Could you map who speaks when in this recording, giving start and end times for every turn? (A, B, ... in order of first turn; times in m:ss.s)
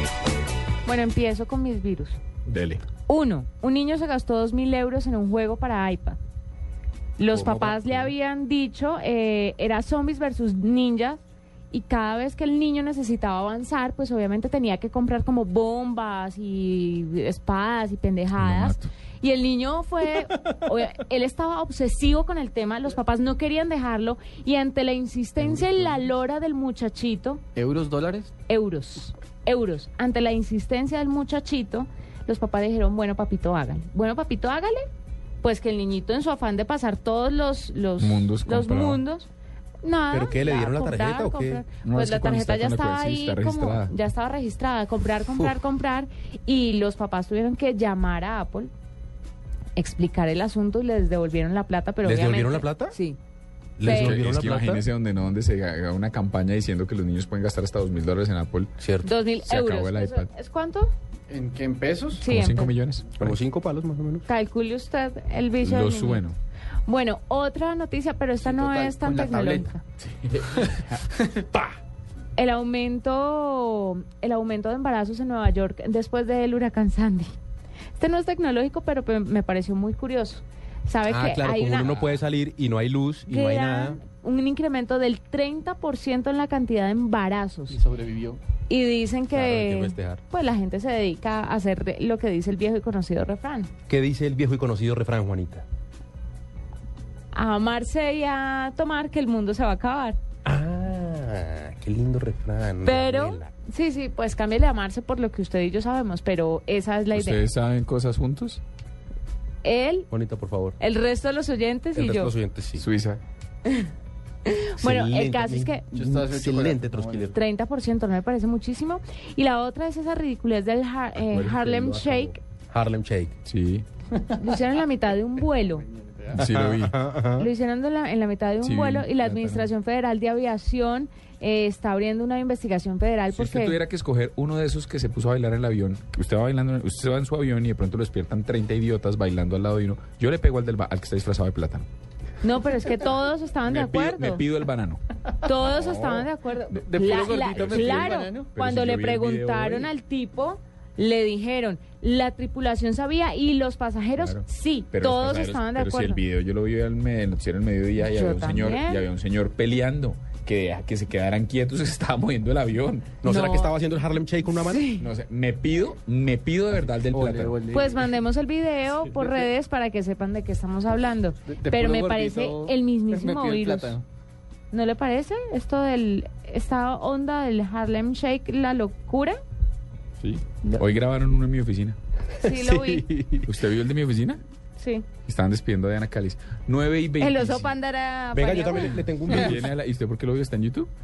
0:00.8-0:02.2 A
0:02.5-0:02.8 B
0:03.1-0:06.2 A
0:07.2-0:27.4 A
0:07.4-0:07.7 B
0:18.4-0:18.9 B
0:27.6-0:28.3 C
0:28.5-0:34.9 A
0:35.4-0:39.3 A
0:38.0-0:39.0 B
0:39.8-0:48.7 A
0:40.1-0:41.6 D
0:41.8-0:43.9 B
0:49.8-0:53.2 A
0:52.0-0:53.0 D
0:53.8-0:54.8 D
0:53.8-0:54.2 A
0:53.8-0:58.7 B
0:58.8-0:59.1 D
0:59.0-1:00.9 A
0:59.4-1:00.3 B
1:01.3-1:02.3 C
1:02.2-1:02.8 A
1:02.3-1:03.4 B
1:03.2-1:04.2 D
1:04.3-1:06.3 A
1:05.6-1:06.4 B
1:06.9-1:09.8 A
1:08.4-1:09.7 C
1:10.2-1:11.0 B
1:10.4-1:11.5 C
1:12.4-1:17.3 A
1:18.0-1:22.2 A
1:21.1-1:24.0 D
1:23.3-1:27.8 A
1:27.7-1:28.4 C
1:28.7-1:33.7 A
1:29.3-1:30.2 D
1:33.9-1:35.6 D
1:37.3-1:40.2 A
1:40.4-1:43.5 D
1:42.8-1:47.4 A
1:47.1-1:48.6 B
1:49.6-1:50.1 A
1:50.1-1:50.8 D
1:50.8-1:52.3 A
1:52.0-1:52.8 D
1:52.8-1:53.2 B
1:54.5-1:55.9 A
1:54.8-1:57.4 D
1:55.9-1:57.3 C
1:57.3-2:02.4 A
2:01.2-2:01.9 B
2:01.7-2:03.4 D
2:03.4-2:03.8 B
2:04.2-2:05.8 A
2:05.9-2:06.3 C
2:06.3-2:07.0 B
2:06.4-2:07.5 D
2:07.4-2:13.8 A
2:08.6-2:09.7 B
2:13.3-2:21.9 B
2:22.4-2:24.4 A
2:23.7-2:26.3 B
2:25.4-2:36.2 A
2:26.7-2:28.5 C
2:26.9-2:29.9 B
2:34.2-2:43.2 B
2:38.0-2:39.0 A
2:43.2-2:44.8 D
2:43.2-2:43.8 A
2:44.5-2:45.1 A
2:45.0-2:47.6 B
2:47.0-2:48.0 C
2:47.7-2:54.0 A
2:51.5-2:54.0 C
2:54.7-2:59.4 A
3:00.2-3:02.0 B
3:02.4-3:03.1 A
3:02.4-3:03.5 D
3:03.4-3:04.4 B
3:04.8-3:05.1 A
3:05.3-3:07.7 B
3:07.2-3:09.0 A
3:08.3-3:09.7 D
3:09.2-3:10.9 B